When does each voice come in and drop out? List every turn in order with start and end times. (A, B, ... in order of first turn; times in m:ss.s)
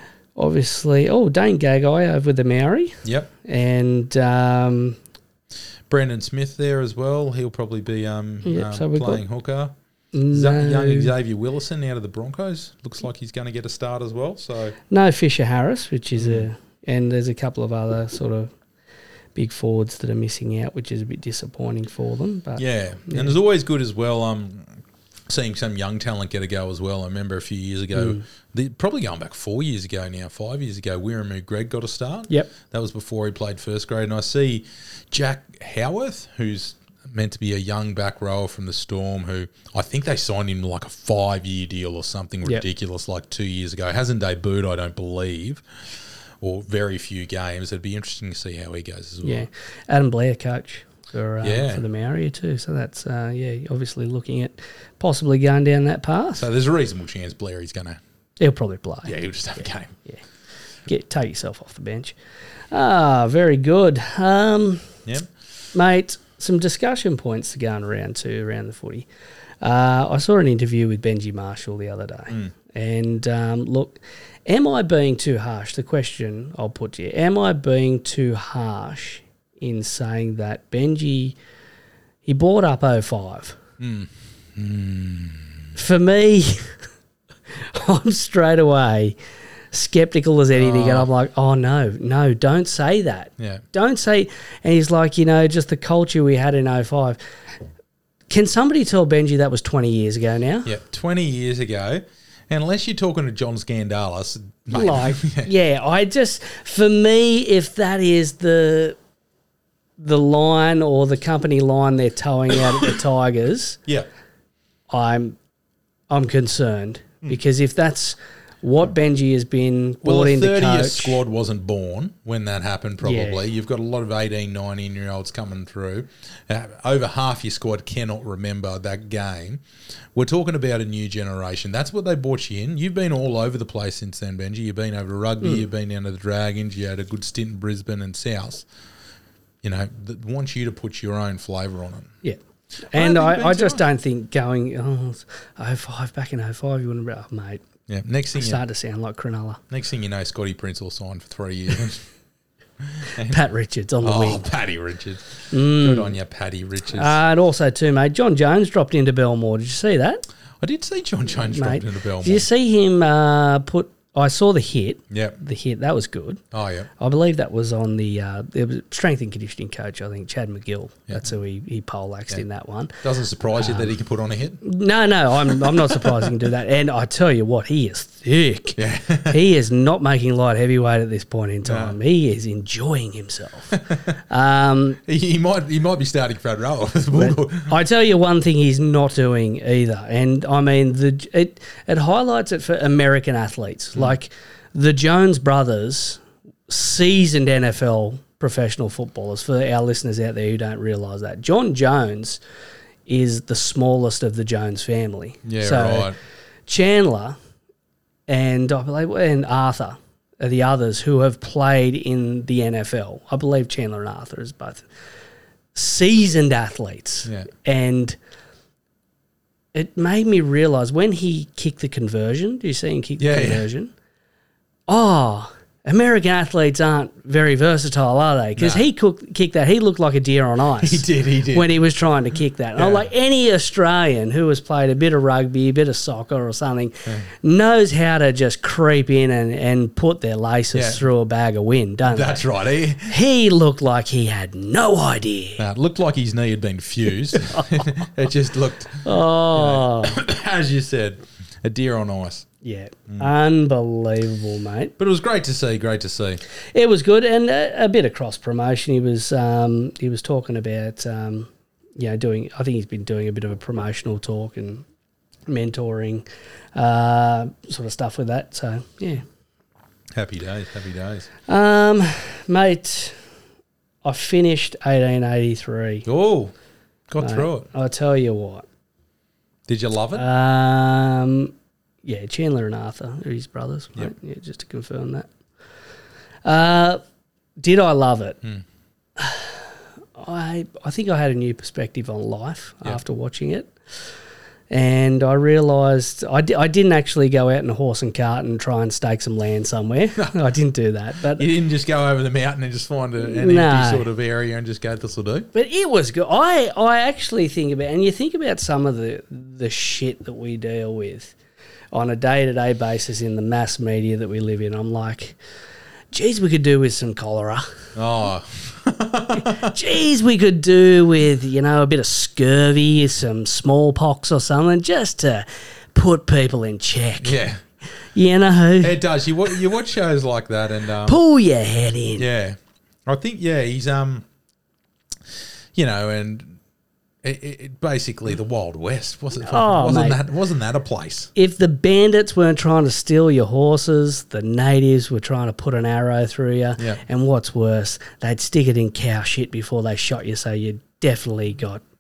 0:00.4-0:05.0 A
0:03.0-0:03.3 B
0:05.9-0:09.7 B
0:08.4-0:09.2 A
0:10.1-0:11.1 A
0:10.3-0:14.8 B
0:14.9-0:18.5 A
0:16.2-0:16.5 B
0:19.4-0:23.4 A
0:22.6-0:24.7 B
0:25.3-0:45.6 B
0:27.9-0:28.2 A
0:46.4-0:49.5 B
0:49.2-0:56.4 A
0:51.4-0:51.8 B
0:56.4-0:58.0 B
0:58.4-0:59.2 A
0:59.0-0:59.9 B
1:00.8-1:02.2 A
1:02.7-1:05.0 A
1:05.7-1:09.1 A
1:09.6-1:21.4 A
1:22.2-1:23.6 A
1:23.8-1:25.6 B
1:25.8-1:26.8 A
1:27.5-1:29.2 A
1:29.7-1:37.2 A
1:30.6-1:31.1 B
1:33.4-1:33.6 B
1:38.3-1:40.7 A
1:40.7-1:45.5 B
1:44.7-1:49.0 A
1:50.0-1:53.8 A
1:54.9-1:55.4 A
1:56.1-2:01.2 A
2:00.0-2:09.6 B
2:03.0-2:03.4 A
2:10.1-2:18.7 B
2:19.6-2:22.1 B
2:22.9-2:27.6 A
2:22.9-2:23.8 B
2:27.9-2:28.6 B
2:28.4-2:29.6 A
2:29.7-2:32.0 B
2:32.8-2:33.4 B
2:33.2-2:34.5 A
2:34.0-2:37.2 B
2:35.5-2:36.1 A
2:36.9-2:40.2 A
2:40.6-2:42.4 B
2:41.3-2:46.4 A
2:45.1-2:45.4 B
2:46.5-2:46.9 B
2:47.0-2:53.0 A
2:53.0-2:54.6 B
2:53.6-2:53.9 A
2:54.6-3:05.0 A
2:55.5-2:56.3 B
2:58.8-2:59.4 B
3:01.6-3:02.0 B
3:05.1-3:07.7 B
3:07.1-3:22.4 A
3:23.1-3:26.1 A
3:25.4-3:26.2 B
3:26.7-3:27.4 A
3:28.3-3:34.9 A
3:35.7-3:38.2 A
3:39.7-3:43.9 A
3:43.2-3:43.6 B
3:44.9-4:02.4 A
3:48.6-3:48.8 B
3:50.8-3:51.7 B
3:52.8-3:53.1 B
4:00.7-4:01.0 B
4:02.1-4:03.1 B
4:03.1-4:05.6 A
4:05.6-4:12.5 B
4:07.3-4:07.8 A
4:09.0-4:10.2 A
4:12.6-4:14.9 A
4:15.0-4:16.4 B
4:16.7-4:24.8 A
4:25.5-4:29.2 A
4:30.1-4:31.3 B
4:31.5-4:33.2 A
4:34.0-4:36.1 A
4:36.1-4:36.5 B
4:37.1-4:37.7 B
4:37.2-4:38.6 A
4:39.7-4:40.2 B
4:40.1-4:45.3 A
4:46.4-4:47.0 A
4:47.6-4:48.4 A
4:49.2-4:49.6 A
4:50.2-4:53.7 A
4:54.7-5:01.5 A
5:01.4-5:05.5 B
5:03.2-5:04.1 A
5:05.5-5:11.4 A
5:11.9-5:15.4 A
5:16.1-5:17.6 A
5:18.0-5:19.7 B
5:19.4-5:27.4 A
5:27.2-5:27.6 B
5:28.1-5:29.0 A
5:28.8-5:31.2 B
5:31.0-5:32.2 A
5:32.2-5:34.2 B
5:35.8-5:36.6 B
5:37.2-5:41.3 B
5:39.4-5:40.2 A
5:41.4-5:51.8 A